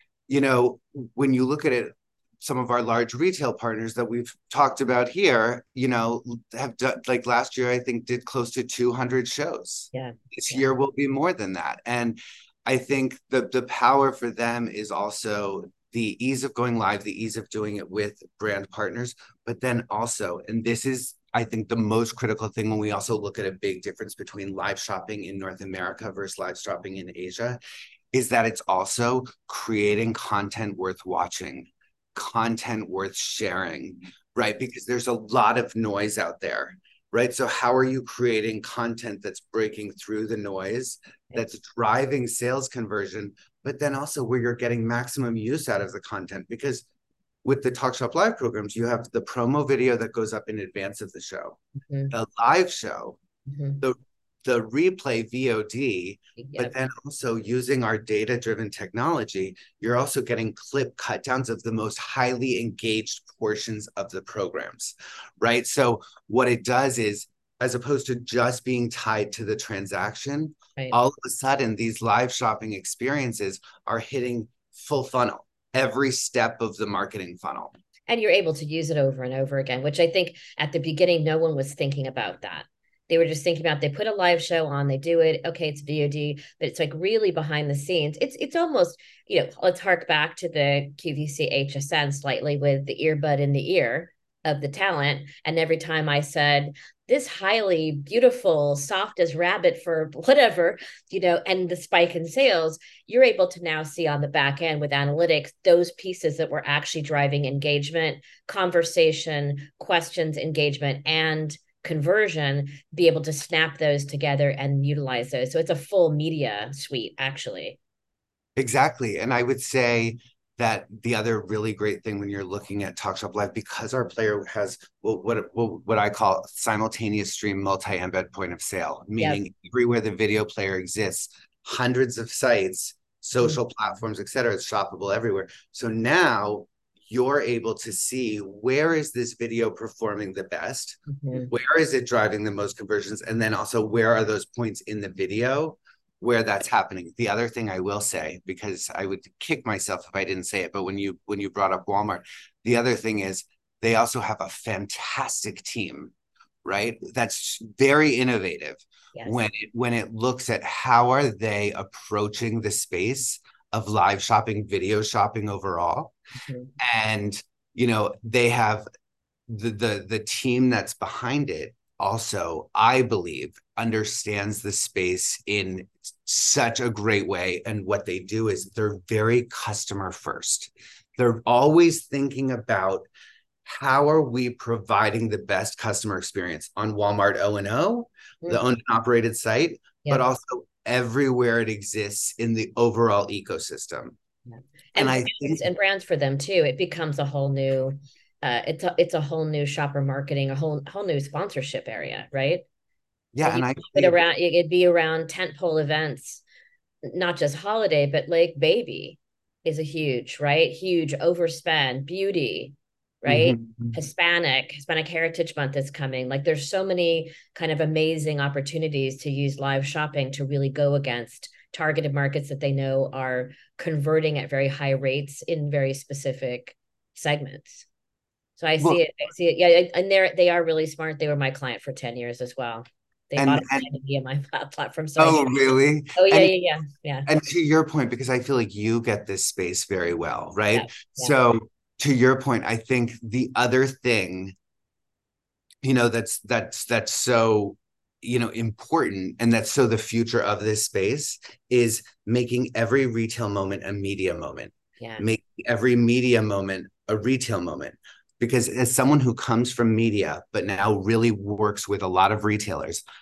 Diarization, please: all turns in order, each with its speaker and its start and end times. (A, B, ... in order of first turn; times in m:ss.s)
0:00.3-0:27.6 A
0:09.9-0:10.7 B
0:28.1-0:46.8 A
0:47.4-0:51.6 A
0:51.9-0:52.1 B
0:52.1-0:53.2 A
0:53.5-0:53.8 B
0:53.8-1:17.7 A
0:56.4-0:56.8 B
1:18.1-1:57.8 B
1:58.6-2:36.1 A
2:21.1-2:21.5 B
2:36.6-2:46.2 A
2:46.4-2:46.7 B
2:46.8-2:48.9 A
2:49.5-3:03.1 A
3:03.6-3:14.2 A
3:14.5-3:22.6 B
3:15.0-3:15.6 A
3:23.3-3:24.2 A
3:23.4-3:26.4 B
3:27.0-3:47.8 B
3:33.2-3:34.0 A
3:48.6-3:55.6 B
3:53.4-3:53.9 A
3:55.2-3:56.5 A
3:56.2-3:57.3 B
3:57.3-4:04.6 A
4:00.7-4:01.4 B
4:05.8-4:23.0 A
4:15.0-4:15.3 B